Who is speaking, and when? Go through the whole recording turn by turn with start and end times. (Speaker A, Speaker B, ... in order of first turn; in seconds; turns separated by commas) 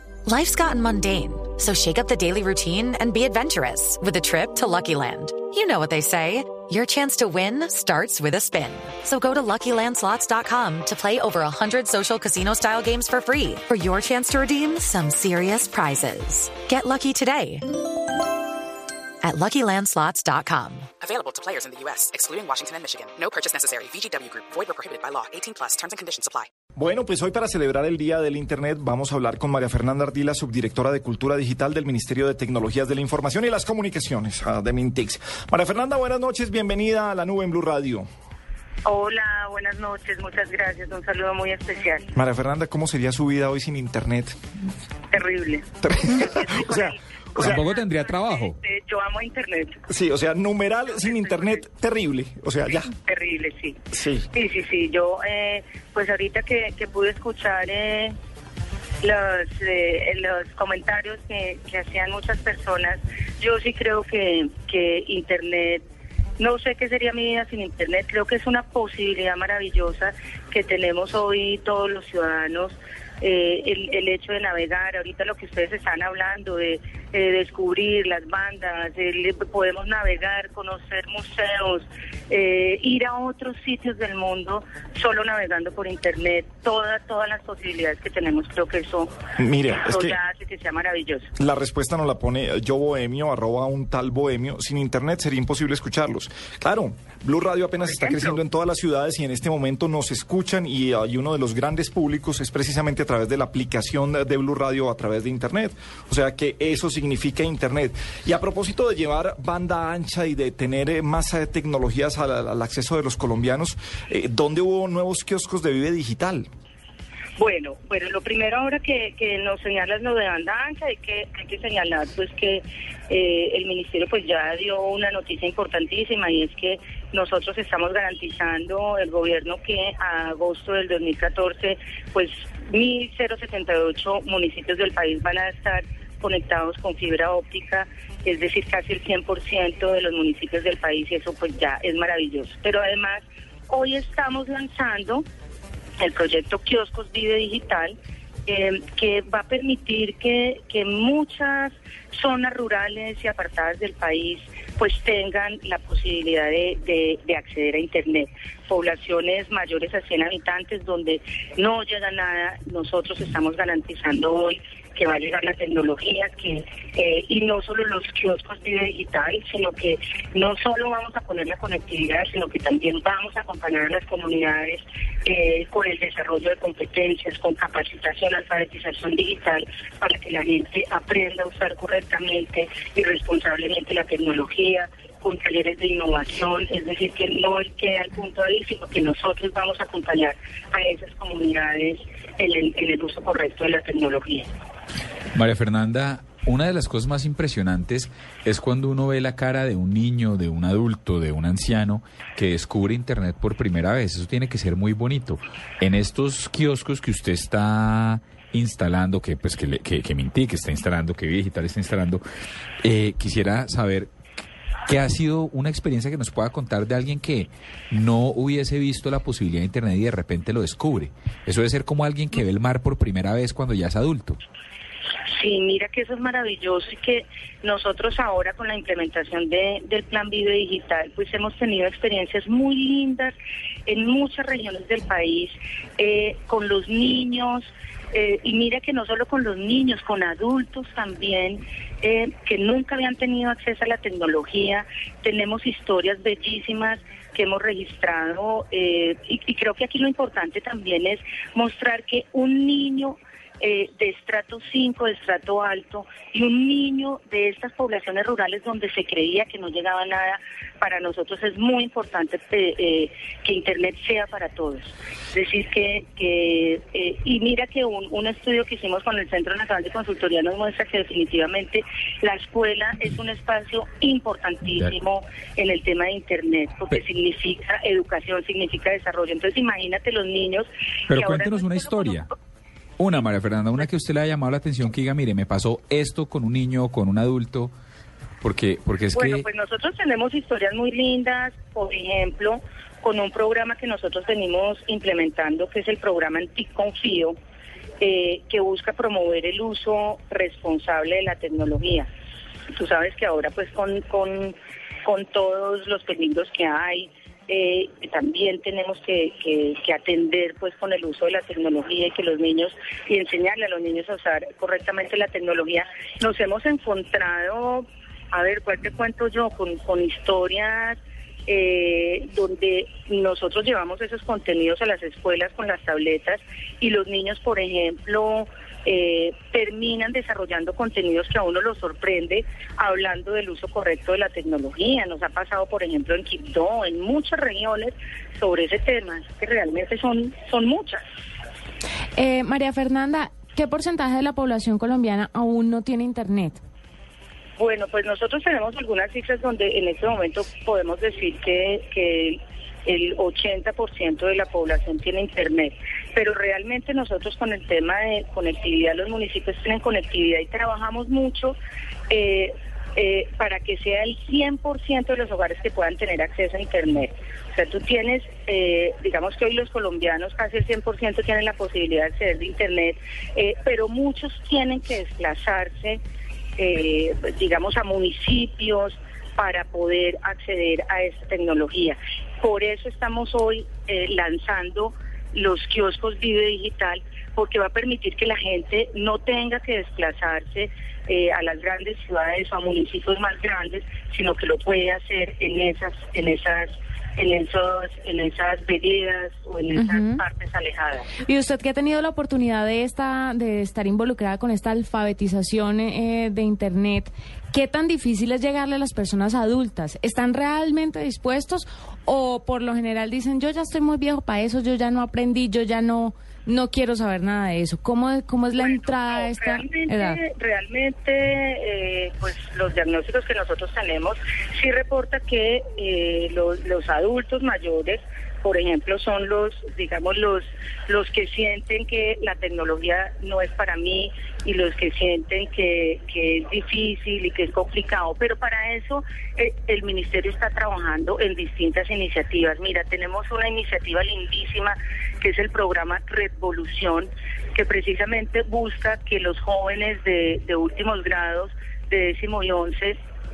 Speaker A: 0.3-17.7, Speaker A: 19.2-20.9, Speaker B: 21.0-26.5, Speaker C: 26.8-38.1, Speaker D: 38.9-42.1, Speaker C: 42.1-44.4, Speaker D: 45.1-49.8, Speaker C: 45.8-47.6, Speaker E: 47.4-48.5, Speaker C: 49.9-52.9, Speaker D: 50.9-51.6, Speaker D: 52.7-58.1, Speaker C: 53.9-54.3, Speaker D: 59.0-65.8, Speaker D: 66.4-89.2, Speaker C: 89.4-90.2, Speaker D: 89.8-91.3, Speaker C: 91.4-116.5, Speaker D: 97.8-98.4, Speaker D: 117.4-145.2, Speaker D: 146.0-147.9, Speaker D: 148.5-194.5, Speaker E: 195.3-212.2, Speaker E: 212.8-214.1, Speaker E: 214.9-224.4, Speaker D: 225.3-282.2, Speaker E: 281.1-282.3, Speaker E: 283.0-287.7, Speaker E: 288.4-289.4, Speaker D: 289.1-297.4, Speaker D: 298.0-302.1, Speaker D: 302.7-341.0, Speaker F: 342.2-346.6, Speaker D: 347.6-361.6, Speaker D: 362.1-376.0, Speaker D: 376.6-401.1, Speaker F: 399.8-400.2, Speaker F: 401.2-420.2, Speaker D: 418.6-453.0